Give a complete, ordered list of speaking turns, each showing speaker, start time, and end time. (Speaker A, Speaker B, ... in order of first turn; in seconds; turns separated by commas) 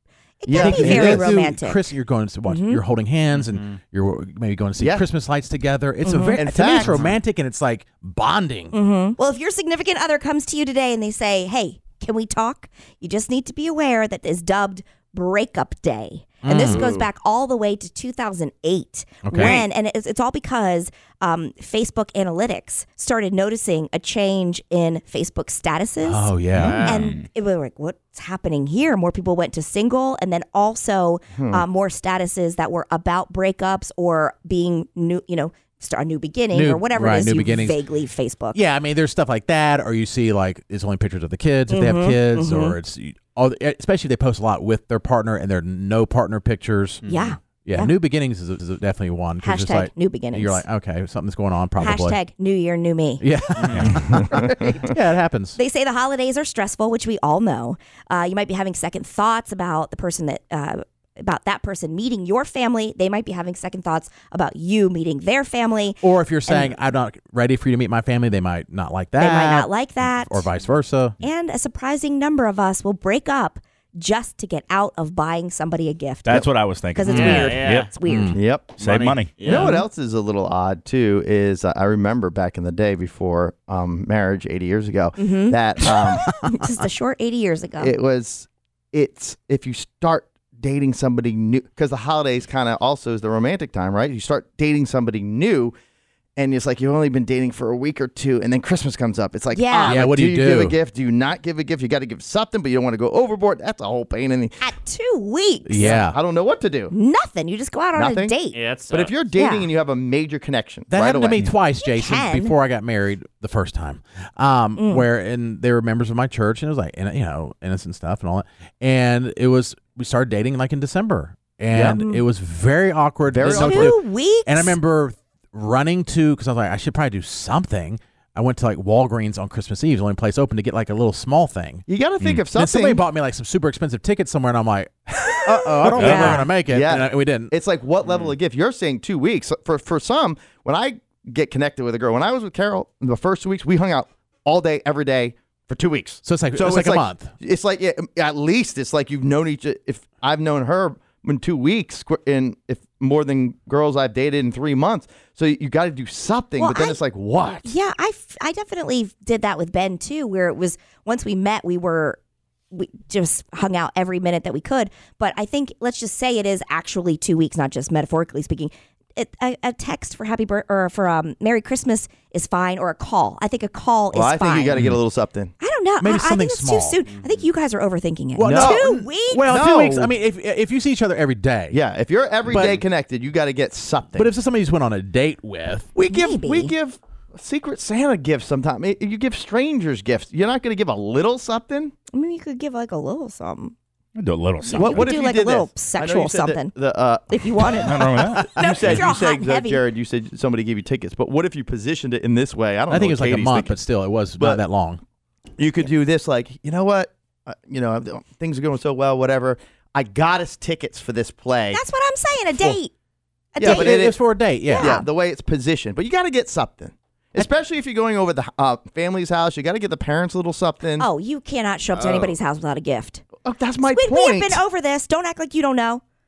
Speaker A: 0.4-1.9, Speaker B: 0.5-1.4, Speaker C: 0.5-8.7, Speaker A: 2.5-2.8, Speaker D: 3.3-3.8, Speaker B: 4.8-5.1, Speaker A: 6.0-6.4, Speaker B: 6.4-7.0, Speaker D: 6.8-7.1, Speaker A: 8.7-38.6, Speaker C: 16.4-16.9, Speaker D: 16.6-17.1, Speaker C: 19.2-19.6, Speaker D: 19.4-19.7, Speaker C: 26.0-26.8, Speaker D: 26.5-27.1, Speaker E: 26.5-27.2, Speaker B: 31.3-31.7, Speaker C: 36.5-37.8, Speaker C: 38.5-47.0, Speaker A: 41.7-42.8, Speaker D: 47.0-47.4, Speaker A: 47.1-47.9, Speaker C: 47.6-52.2, Speaker A: 49.4-50.6, Speaker A: 51.8-53.3, Speaker C: 53.2-55.6, Speaker D: 53.6-54.0, Speaker B: 54.0-54.6, Speaker A: 54.3-54.9, Speaker A: 55.6-66.8, Speaker C: 66.0-71.2, Speaker A: 69.2-70.5, Speaker A: 71.2-78.4, Speaker E: 76.2-77.9, Speaker C: 77.1-77.5, Speaker D: 77.1-77.9, Speaker C: 78.0-78.4, Speaker B: 78.3-78.8, Speaker D: 78.8-79.8, Speaker E: 78.8-79.4, Speaker B: 79.4-86.3, Speaker C: 79.5-79.8, Speaker A: 85.2-85.6, Speaker A: 86.3-87.9, Speaker B: 87.8-95.7, Speaker B: 96.4-104.7, Speaker A: 99.5-100.0, Speaker C: 99.9-100.8, Speaker A: 104.6-106.0, Speaker C: 105.7-106.2, Speaker B: 105.7-106.9, Speaker A: 106.9-108.6, Speaker B: 107.9-108.4, Speaker D: 108.5-109.3, Speaker B: 108.9-111.4, Speaker A: 109.3-109.7, Speaker C: 110.9-131.8, Speaker A: 111.8-112.5, Speaker A: 114.8-115.0, Speaker B: 121.7-122.0, Speaker B: 123.3-124.0, Speaker A: 123.5-124.8, Speaker B: 131.9-133.1, Speaker C: 132.5-137.5, Speaker B: 135.3-157.7, Speaker E: 135.9-136.5, Speaker A: 135.9-136.5, Speaker D: 138.1-138.3, Speaker C: 146.2-147.3, Speaker A: 156.6-157.0, Speaker A: 157.6-162.2, Speaker A: 162.7-174.8, Speaker B: 174.1-175.5, Speaker A: 175.6-179.5, Speaker C: 176.0-177.0, Speaker D: 177.1-177.5, Speaker C: 178.4-181.8, Speaker B: 178.4-178.9, Speaker B: 179.5-180.1, Speaker B: 181.7-184.3, Speaker C: 182.5-182.8, Speaker C: 184.1-185.9, Speaker B: 185.9-191.9, Speaker A: 186.1-186.7, Speaker A: 192.1-193.8, Speaker E: 194.2-195.0, Speaker A: 194.6-196.7, Speaker B: 194.8-203.8, Speaker A: 197.3-199.8, Speaker E: 197.8-198.5, Speaker C: 202.9-205.0, Speaker B: 204.4-204.6, Speaker B: 205.6-211.8, Speaker A: 211.7-212.9, Speaker A: 213.5-214.0, Speaker B: 213.6-214.2, Speaker C: 213.6-215.0, Speaker A: 214.7-215.0, Speaker B: 214.8-221.1, Speaker A: 221.0-223.2, Speaker D: 221.9-222.3, Speaker B: 223.4-224.6, Speaker A: 223.9-226.0